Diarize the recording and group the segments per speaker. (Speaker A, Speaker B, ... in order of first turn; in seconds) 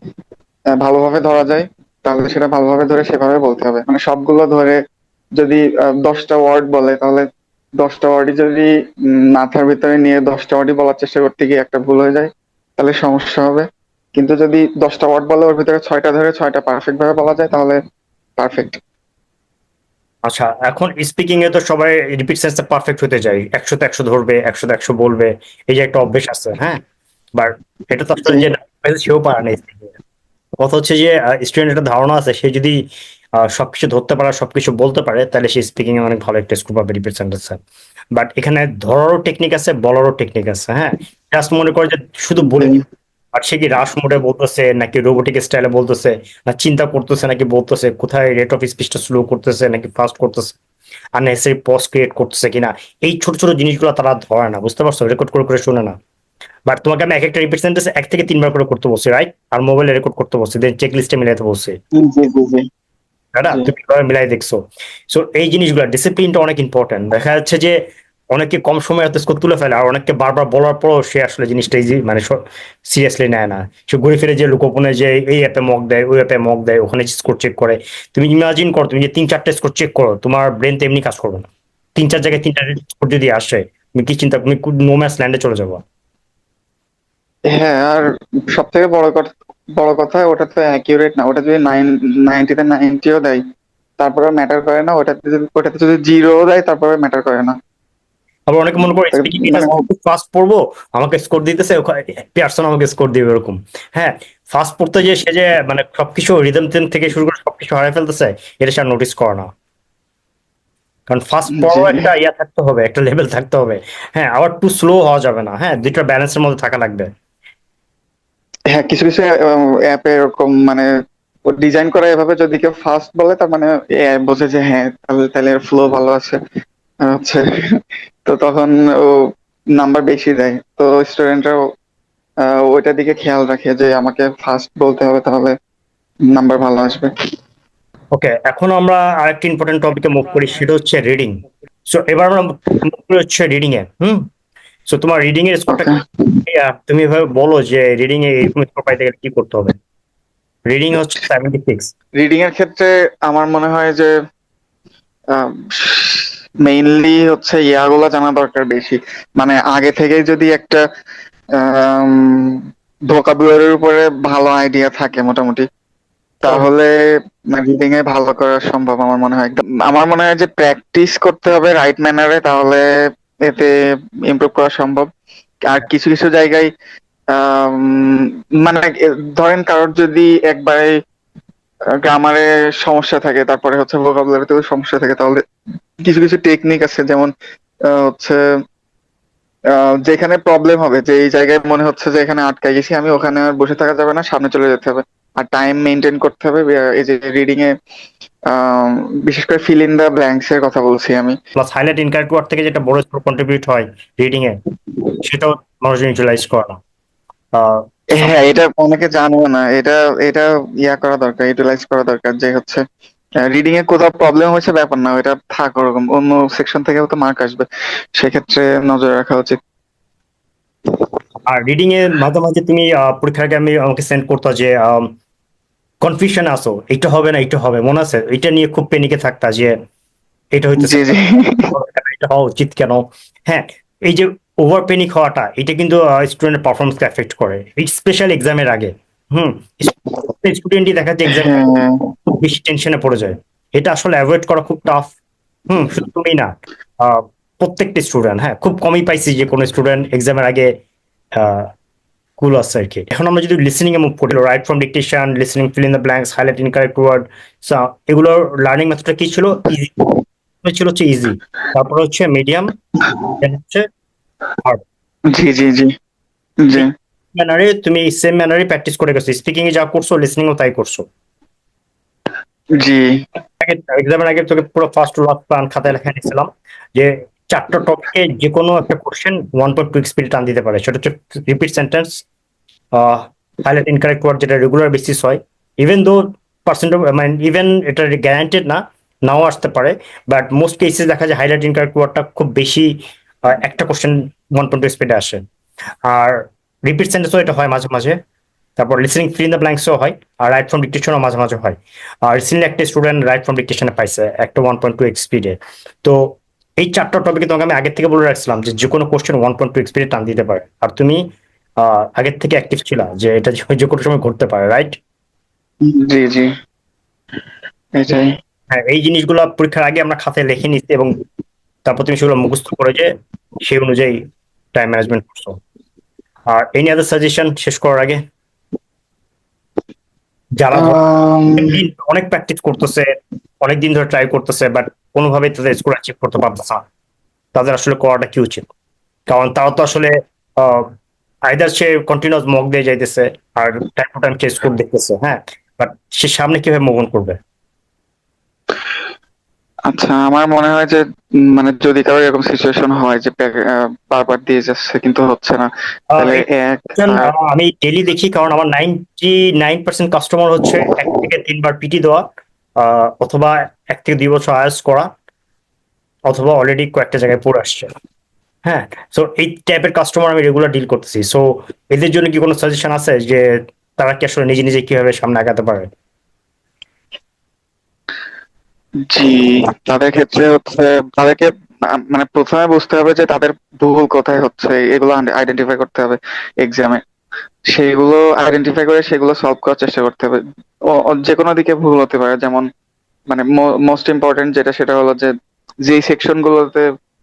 Speaker A: 0.8-4.8, 5.4-7.3, 7.8-17.8, 18.4-18.8, 42.4-42.8, 61.9-62.6, 87.5-93.4, 94.0-97.5, 99.1-99.8, 111.5-112.1, 118.7-120.9, 121.4-126.4, 127.0-127.5, 128.2-129.1, 129.8-131.6, 132.4-135.5, 136.3-137.1, 145.8-146.4, 152.2-154.1, 155.3-160.8, 161.6-162.4, 163.1-165.6, 166.4-166.9, 167.5-172.8, 173.4-173.7, 174.3-175.1, 175.6-176.7, 177.3-181.0, 182.0-185.4, 186.0-187.3, 187.9-188.4, 189.7-197.7, 198.5-201.4, 208.1-212.8, 213.4-217.6, 218.2-219.6, 230.8-231.7, 241.3-241.9, 263.0-263.3, 265.3-265.9, 266.6-266.9, 272.7-273.2, 315.8-316.5, 317.9-318.3, 330.7-331.8, 349.9-357.3, 379.1-387.0, 387.7-390.4, 391.0-392.7, 393.3-395.3, 395.8-396.8
Speaker B: 20.3-26.8, 27.4-29.9, 30.6-32.8, 33.4-37.6, 38.1-42.7, 43.3-50.5, 51.2-55.9, 56.6-61.8, 63.3-67.8, 68.3-85.8, 98.5-109.5, 111.1-117.1, 138.1-144.3, 144.9-145.9, 146.4-149.7, 150.7-151.9, 201.6-204.6, 205.2-206.8, 207.6-208.3, 221.5-225.1, 226.0-229.7, 230.5-241.6, 242.3-245.1, 245.7-250.7, 251.3-251.7, 252.4-259.9, 260.6-262.7, 263.4-263.8, 266.7-271.0, 273.6-282.2, 282.9-295.4, 296.1-298.2, 298.8-311.2, 311.8-314.9, 318.7-321.1, 321.9-323.1, 323.6-324.2, 324.7-325.6, 326.5-328.2, 330.6-331.0, 331.6-333.1, 333.6-336.8, 337.5-338.6, 339.3-340.9, 341.5-347.4, 356.1-356.4, 356.9-362.2, 362.8-365.1, 366.3-367.9, 368.6-375.9